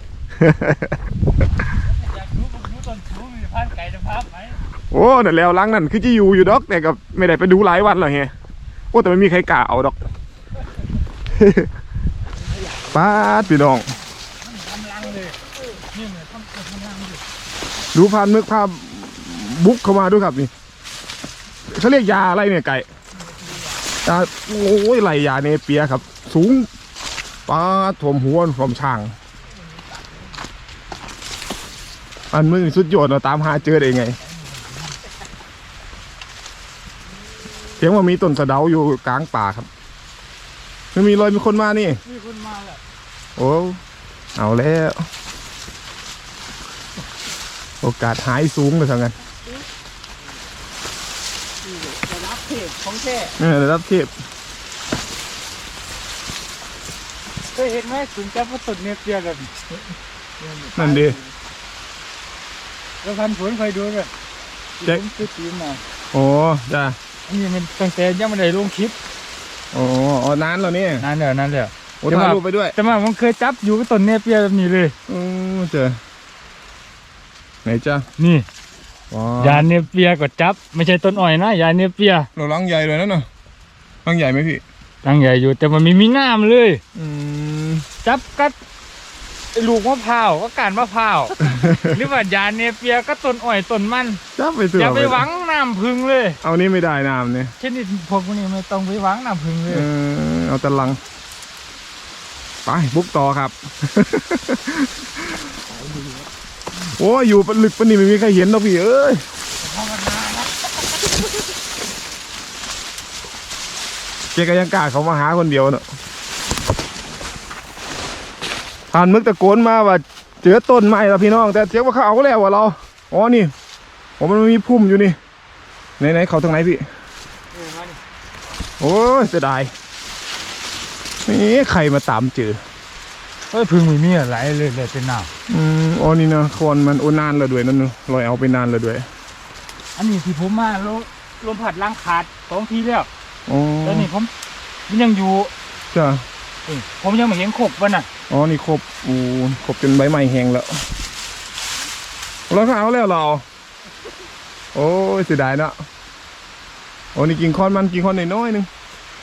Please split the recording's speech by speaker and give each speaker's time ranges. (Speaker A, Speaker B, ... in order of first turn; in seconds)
Speaker A: 0.4-1.0, 4.9-8.3, 8.9-10.0, 11.3-11.7, 12.9-13.9, 17.9-20.5, 21.7-22.9, 24.0-26.7, 27.5-29.1, 32.3-34.2, 37.8-39.7, 40.9-42.0, 43.4-43.8, 44.4-45.1, 47.8-49.1, 53.4-54.1, 60.7-61.2, 66.1-67.0, 69.7-71.0, 72.0-72.8, 75.1-76.0, 77.6-78.0, 79.1-79.6, 82.3-83.3, 84.0-84.6, 86.9-87.8, 91.5-91.9, 94.3-95.2, 96.4-97.5, 99.7-101.0, 102.6-105.5, 107.0-109.2, 114.3-115.8, 118.9-123.5, 124.2-125.2, 126.0-126.8, 128.8-129.7, 131.2-132.6, 135.5-139.1, 143.5-144.1, 145.9-146.2, 148.3-150.8, 152.5-153.4, 154.7-155.8, 157.1-158.7
Speaker B: 1.8-4.6, 14.4-17.2, 42.0-42.8, 57.5-59.6, 63.0-64.1, 64.8-65.8, 67.3-69.0, 71.0-75.0, 78.2-78.5, 79.4-82.3, 85.0-86.8, 88.0-88.5, 89.5-94.2, 94.8-96.4, 97.6-99.9, 109.6-110.8, 127.5-128.0, 133.5-135.3, 139.9-143.1, 143.8-144.3, 144.9-145.5, 146.7-148.1
Speaker C: 51.6-53.4, 60.4-61.2, 105.8-106.2